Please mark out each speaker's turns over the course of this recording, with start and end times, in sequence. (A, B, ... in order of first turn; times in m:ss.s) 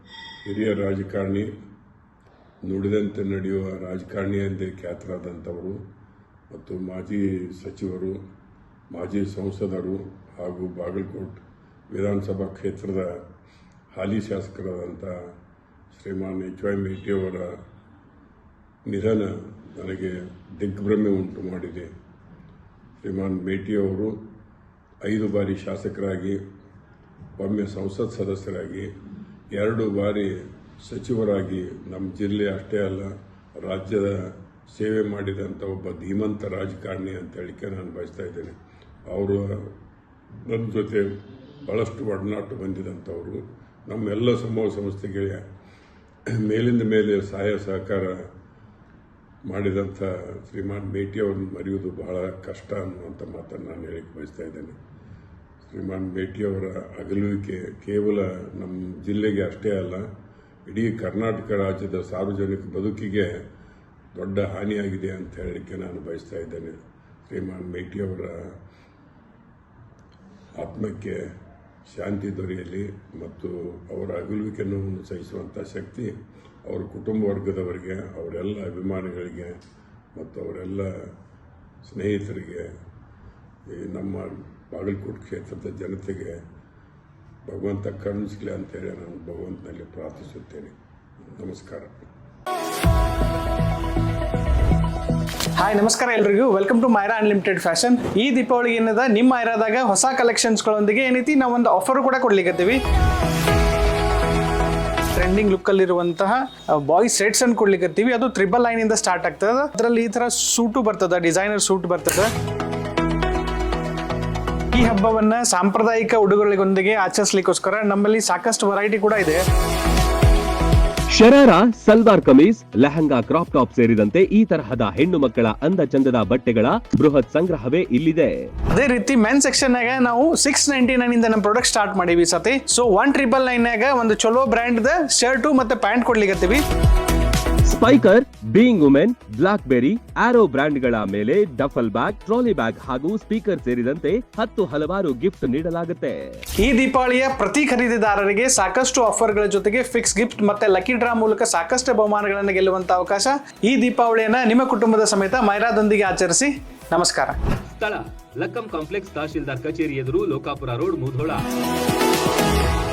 0:00.5-0:01.5 A
0:02.6-0:05.8 A
0:06.5-0:08.2 A
0:08.9-0:13.2 A
0:13.9-0:15.1 A
0:15.9-0:17.6 A
0:18.9-0:21.9 A
0:23.0-0:24.2 A
0:25.0-0:26.4 A
0:27.4-0:28.9 A
0:29.5-0:38.6 A
0:39.1-0:39.7 A
0:40.5-0:41.1 A
0:41.6-0:45.4 A
0:46.4-0:48.2 A
0:49.5-0:54.8 A
0:55.7-1:00.1 A
1:00.7-1:03.4 A
1:04.1-1:06.8 A
1:07.3-1:08.5 A
1:10.6-1:11.2 A
1:11.9-1:16.1 A
1:16.7-1:19.6 A
1:20.2-1:21.1 A
1:21.8-1:22.7 A
1:23.7-1:26.4 A
1:27.5-1:30.7 A
1:31.4-1:31.9 A
1:35.6-1:42.8 B
1:45.2-1:52.3 B
1:54.7-1:59.4 B
2:01.1-2:08.5 C
2:08.7-2:16.6 B
2:17.7-2:26.4 C
2:26.6-2:37.4 B
2:37.7-2:41.4 C